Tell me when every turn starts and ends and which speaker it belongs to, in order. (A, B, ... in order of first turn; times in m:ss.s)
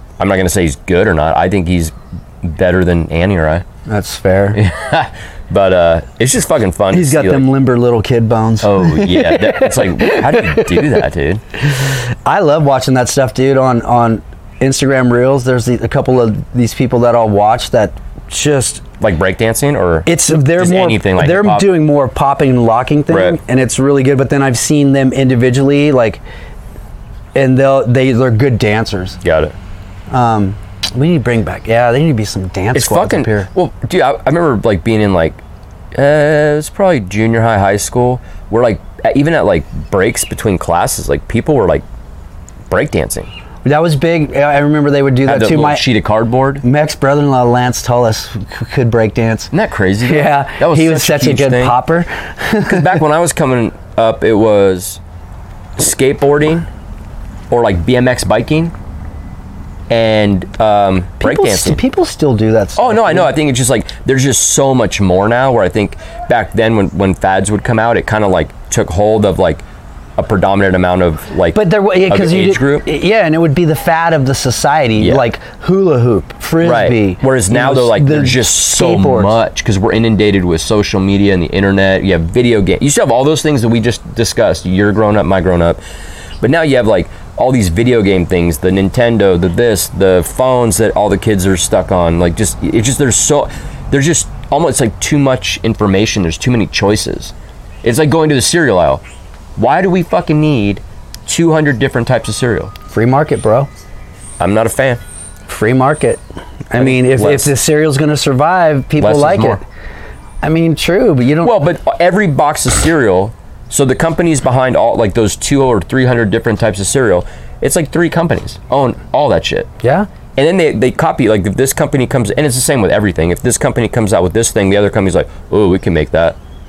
0:00.2-0:03.6 A
0:03.9-0:04.6 B
0:04.5-0:07.5 A
0:06.9-0:10.9 B
0:08.6-0:11.4 A
0:11.8-0:18.8 B
0:19.0-0:21.7 A
0:20.0-0:26.2 B
0:23.1-0:23.4 A
0:27.3-0:29.2 B
0:29.2-0:29.5 A
0:30.1-0:33.5 B
0:32.7-0:35.4 A
0:35.9-0:41.8 A
0:42.7-0:43.3 A
0:43.6-0:45.8 B
0:45.2-0:46.6 A
0:46.6-0:49.5 B
0:49.5-0:51.8 A
0:50.0-0:52.9 B
0:52.6-0:55.0 A
0:55.8-0:56.7 A
0:57.5-0:58.7 A
0:59.9-1:01.8 A
1:01.2-1:03.3 B
1:02.8-1:09.6 A
1:10.2-1:12.8 A
1:11.5-1:19.3 B
1:15.0-1:15.2 A
1:16.6-1:25.8 A
1:26.4-1:39.0 A
1:39.6-1:42.7 A
1:42.9-1:43.7 B
1:44.4-1:45.0 A
1:45.5-1:49.6 B
1:46.8-1:47.5 A
1:49.0-1:49.6 A
1:50.4-1:51.5 B
1:51.4-1:59.7 A
1:59.8-2:00.1 B
2:00.4-2:06.4 A